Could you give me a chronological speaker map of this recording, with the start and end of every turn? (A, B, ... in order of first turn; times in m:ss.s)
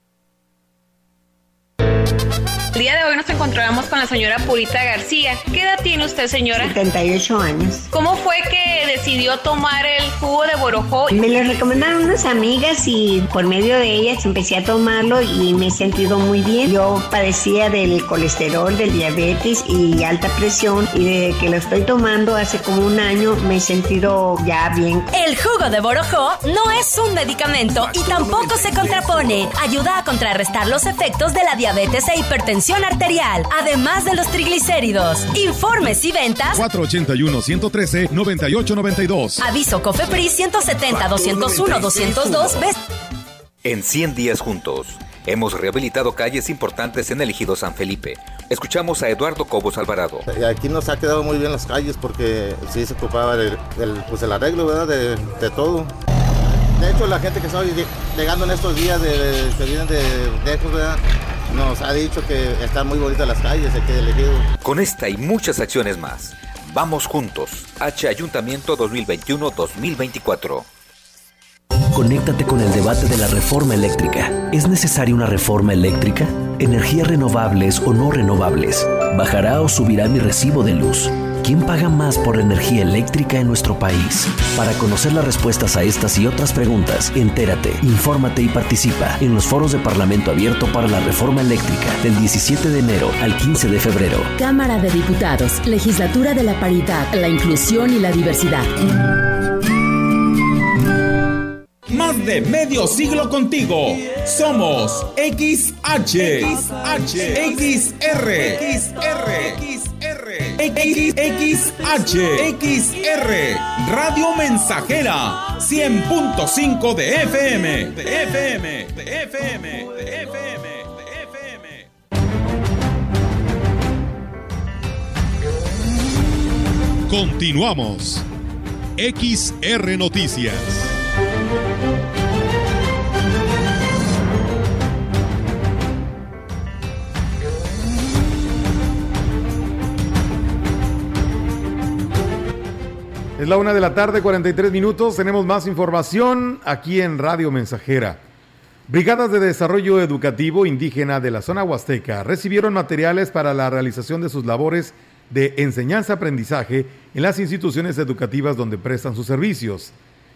0:02.7-0:06.7 A
0:06.5-0:07.9 B
0:07.9-0:11.1 A
0:11.1-0:25.1 B
0:25.1-0:36.6 C
0:36.5-0:39.4 D
0:39.4-0:42.7 C
0:40.9-0:42.5 E
0:43.6-0:50.2 E
0:50.3-0:55.9 F
0:56.7-1:04.5 F
1:04.6-1:10.7 E
1:11.9-1:34.3 G
1:34.4-1:38.7 H
1:41.9-2:01.9 I
2:07.1-2:08.3 D
2:09.0-2:11.0 D
2:23.4-2:28.2 D
2:28.9-2:39.9 D